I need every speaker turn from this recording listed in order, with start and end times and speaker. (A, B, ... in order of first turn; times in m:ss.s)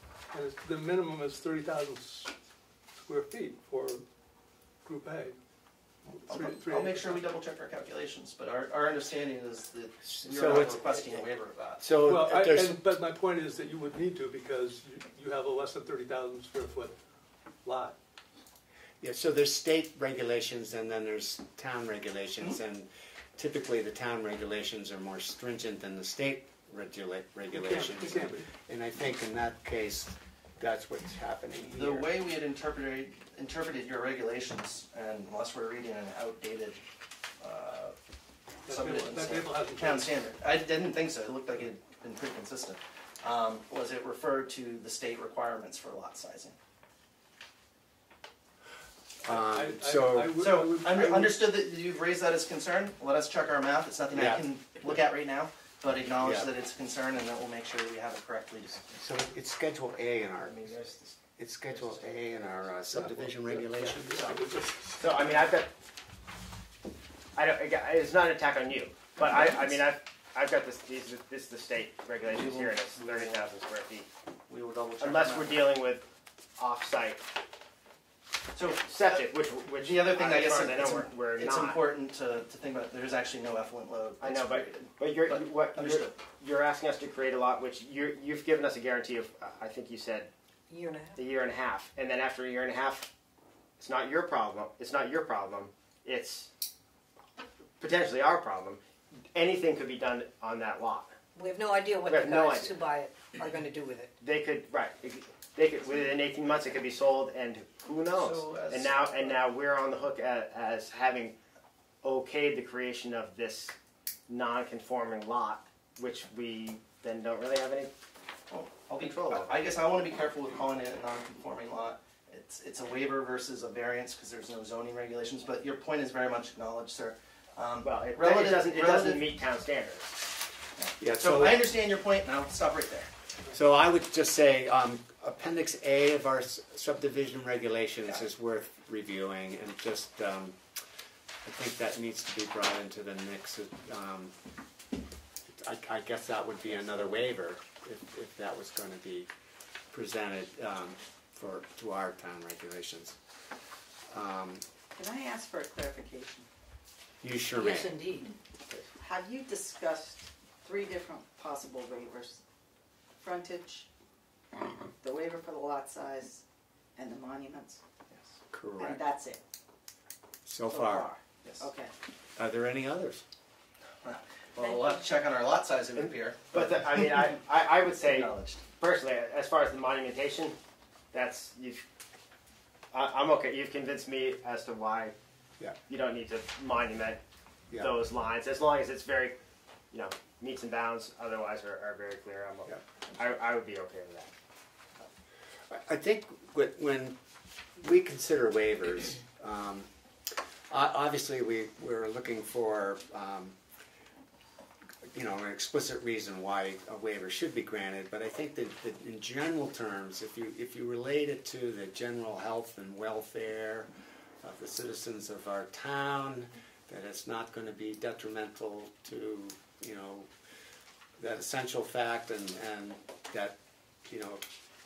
0:00.3-0:02.3 A
0:03.0-0:04.0 A
0:04.8-0:05.4 A
0:06.0-0:07.2 A
0:06.2-0:11.9 B
0:10.0-0:11.1 C
0:11.8-0:12.8 C
0:11.9-0:17.0 A
0:17.6-0:18.0 A
0:19.0-0:32.1 C
0:27.5-0:28.5 A
0:31.6-0:36.8 B
0:37.4-0:37.9 B
0:38.6-0:40.2 A
0:38.6-0:46.5 B
0:49.2-0:50.4 C
0:49.3-0:51.4 A
0:50.4-0:59.0 B
0:54.1-0:54.4 C
0:59.0-1:04.4 C
1:00.4-1:01.2 D
1:01.7-1:02.8 D
1:02.9-1:05.3 A
1:05.0-1:05.7 D
1:07.3-1:14.1 D
1:09.1-1:09.8 B
1:12.2-1:13.5 B
1:14.5-1:15.8 B
1:15.0-1:16.0 D
1:16.6-1:17.2 D
1:18.5-1:26.2 B
1:18.8-1:21.8 D
1:24.2-1:30.3 D
1:30.7-1:31.1 E
1:31.1-1:33.1 D
1:33.8-1:36.5 D
1:37.8-1:38.8 D
1:39.3-1:41.1 D
1:41.3-1:44.1 E
1:42.1-1:42.8 D
1:44.2-1:51.4 D
1:48.1-1:49.5 B
1:52.0-1:53.7 D
1:54.3-1:57.9 D
1:58.5-2:09.4 B
2:07.8-2:10.2 D
2:10.8-2:13.1 B
2:11.0-2:11.6 C
2:13.5-2:20.6 C
2:21.4-2:24.3 C
2:25.5-2:29.3 C
2:29.9-2:33.2 C
2:34.1-2:34.6 C
2:34.9-2:36.5 F
2:37.2-2:38.0 C
2:37.6-2:38.3 E
2:38.9-2:42.4 F
2:43.2-2:43.9 F
2:45.0-2:46.4 F
2:47.0-2:47.8 F
2:48.1-2:48.4 B
2:48.5-2:49.0 C
2:48.8-2:49.4 F
2:50.4-2:51.1 C
2:50.7-2:51.9 F
2:52.4-2:53.2 C
2:54.0-2:57.4 B
2:56.0-3:00.6 D
2:58.0-2:58.7 B
3:01.1-3:01.8 D
3:02.9-3:05.1 D
3:05.9-3:07.2 D
3:07.7-3:08.0 C
3:07.7-3:09.4 D
3:09.9-3:14.3 D
3:15.7-3:17.2 C
3:17.8-3:23.6 C
3:25.1-3:33.9 C
3:34.4-3:40.3 C
3:41.2-3:44.4 C